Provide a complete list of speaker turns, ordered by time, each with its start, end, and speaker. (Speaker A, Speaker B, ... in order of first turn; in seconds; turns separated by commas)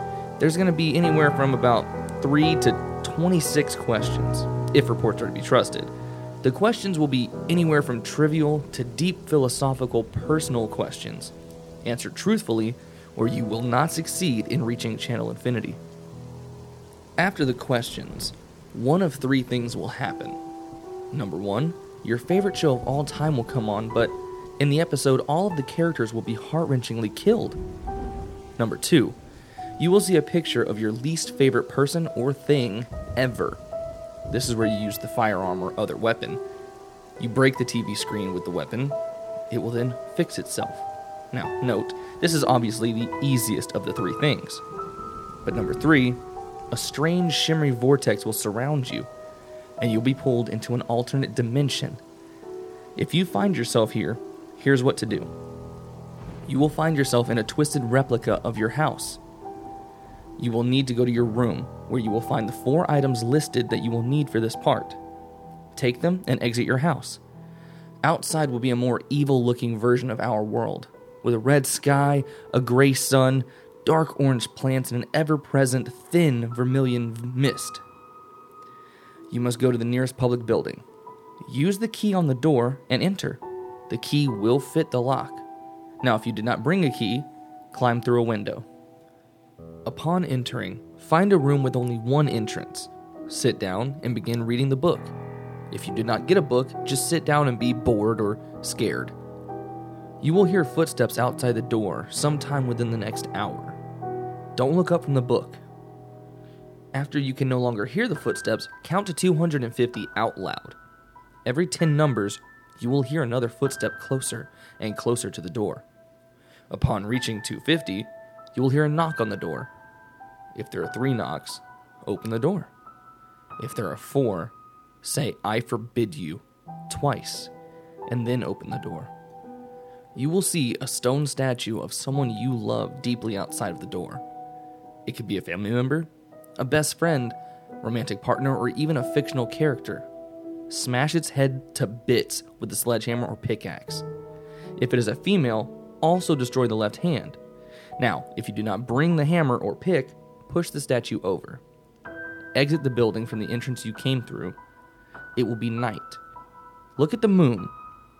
Speaker A: 0.4-15.8, Speaker A: 17.2-20.4, Speaker A: 21.1-27.6, Speaker A: 28.6-29.2, Speaker A: 29.8-33.6, Speaker A: 34.3-36.4, Speaker A: 37.2-39.0, Speaker A: 39.5-44.6, Speaker A: 45.4-49.1, Speaker A: 49.8-52.0, Speaker A: 53.0-55.3, Speaker A: 56.5-59.2, Speaker A: 60.4-65.0, Speaker A: 65.8-67.2, Speaker A: 68.0-77.8, Speaker A: 79.3-80.8, Speaker A: 81.4-85.4, Speaker A: 86.0-88.7, Speaker A: 89.8-95.1, Speaker A: 95.7-99.2, Speaker A: 100.2-103.8, Speaker A: 104.6-105.6, Speaker A: 106.9-110.8, Speaker A: 111.5-115.8, Speaker A: 116.7-119.7, Speaker A: 120.5-122.7, Speaker A: 123.6-127.5, Speaker A: 128.1-129.1, Speaker A: 130.2-134.2, Speaker A: 135.1-140.1, Speaker A: 140.7-144.1, Speaker A: 144.8-147.4, Speaker A: 148.0-151.6, Speaker A: 152.6-154.6, Speaker A: 155.4-156.2, Speaker A: 157.0-157.7